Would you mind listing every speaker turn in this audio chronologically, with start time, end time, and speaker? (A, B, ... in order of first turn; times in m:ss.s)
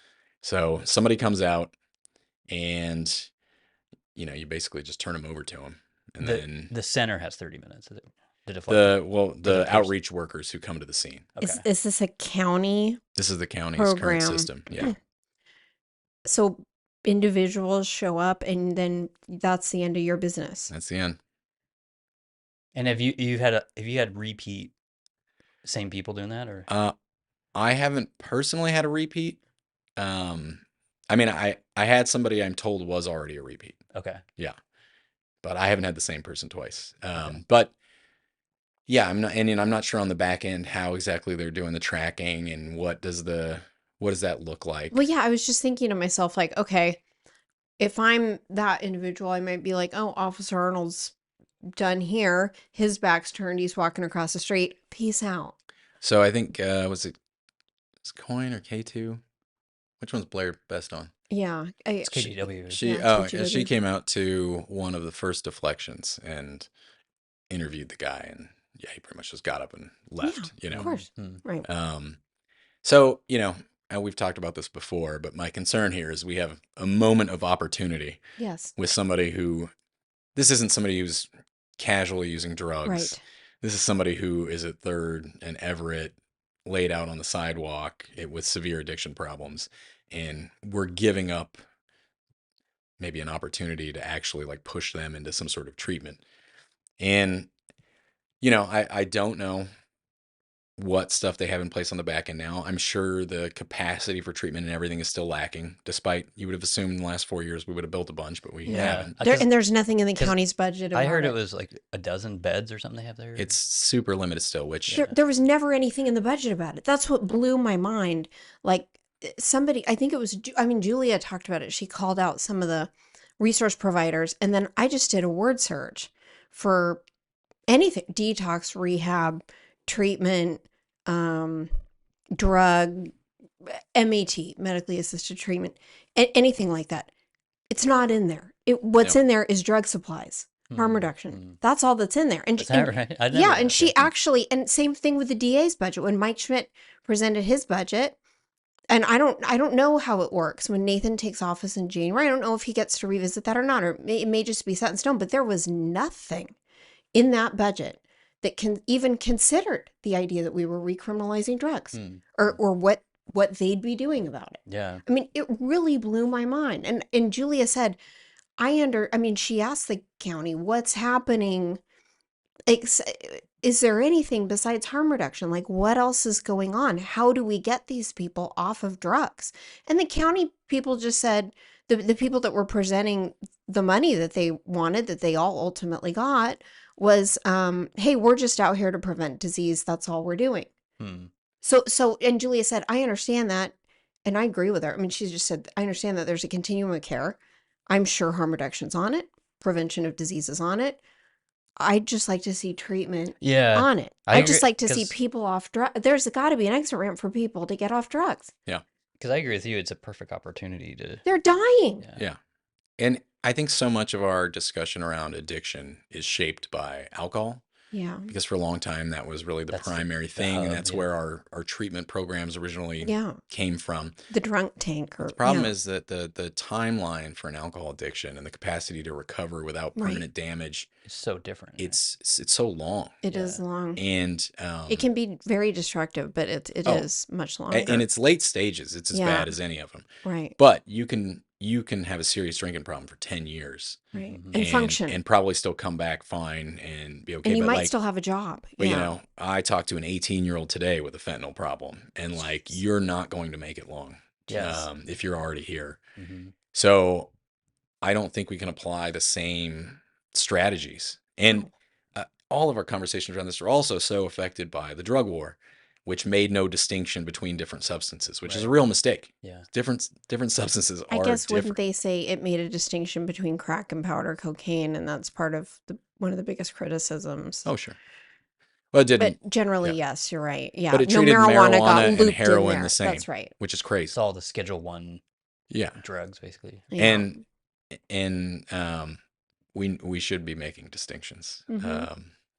0:00.4-0:01.7 A
0:02.5-0:03.3 A
0:04.1-0:06.7 A
0:06.2-0:09.9 B
0:08.7-0:11.3 A
0:11.3-0:11.6 B
0:11.4-0:13.0 C
0:13.2-0:14.9 A
0:13.8-0:14.9 C
0:16.2-0:20.7 C
0:20.7-0:21.2 A
0:22.7-0:24.7 B
0:25.6-0:26.7 B
0:26.7-0:26.9 A
0:27.5-0:29.4 A
0:30.0-0:33.8 A
0:33.9-0:34.2 B
0:35.4-0:37.7 A
0:38.9-0:45.0 A
0:44.9-0:47.0 C
0:47.8-0:51.1 C
0:51.7-0:55.5 C
0:56.0-0:57.1 A
0:58.0-0:59.2 A
1:00.0-1:01.1 A
1:01.3-1:03.7 C
1:02.0-1:02.8 B
1:02.7-1:06.7 A
1:07.5-1:10.9 A
1:10.2-1:11.7 C
1:10.7-1:11.4 B
1:11.6-1:12.2 A
1:12.8-1:18.2 A
1:18.4-1:18.7 C
1:18.8-1:19.7 A
1:20.3-1:26.1 A
1:22.8-1:23.2 C
1:26.6-1:31.6 A
1:33.0-1:36.2 A
1:37.0-1:37.5 A
1:38.4-1:39.7 A
1:40.8-1:49.1 A
1:48.6-1:51.4 C
1:48.7-1:49.5 B
1:50.9-1:53.5 B
1:53.4-1:55.1 A
1:54.9-1:55.1 B
1:55.0-2:07.0 C
2:07.7-2:11.7 C
2:12.3-2:13.1 C
2:13.6-2:17.1 C
2:17.7-2:28.2 C
2:20.7-2:21.6 B
2:22.6-2:24.1 B
2:28.9-2:36.5 C
2:37.1-2:48.0 C
2:41.9-2:42.6 B
2:44.7-2:45.0 B
2:48.6-2:51.8 C
2:52.7-3:10.7 C
3:11.0-3:11.3 B
3:11.6-3:21.0 C
3:21.8-3:28.5 C
3:23.4-3:25.1 B
3:29.2-3:31.2 B
3:31.2-3:32.1 C
3:33.0-3:37.6 A
3:37.9-3:38.3 C
3:38.3-3:44.2 A
3:39.7-3:41.1 B
3:43.0-3:43.4 C
3:44.3-3:45.7 C
3:45.2-3:50.9 A
3:50.0-3:50.2 C
3:51.0-3:52.0 B
3:51.8-3:53.2 A
3:53.2-3:54.0 C
3:53.3-3:53.6 B
3:54.0-3:55.1 A
3:54.9-3:58.0 C
3:57.7-4:04.0 A
3:59.1-3:59.5 C
4:00.2-4:00.6 C
4:04.1-4:04.6 B
4:04.1-4:05.2 C
4:04.5-4:07.9 A
4:07.4-4:09.1 C
4:08.8-4:16.0 A
4:14.5-4:14.9 B
4:16.2-4:16.5 B
4:16.7-4:17.3 A
4:18.0-4:31.8 A
4:28.4-4:28.7 B
4:31.1-4:37.7 C
4:37.6-4:38.0 A
4:38.9-4:40.0 A
4:39.2-4:43.5 C
4:40.9-4:44.1 A
4:44.1-4:45.2 B
4:45.7-4:46.0 A
4:46.0-4:46.9 B
4:46.9-4:47.4 C
4:47.0-4:47.4 A
4:47.9-4:49.2 A
4:49.7-4:52.3 A
4:51.7-4:52.1 C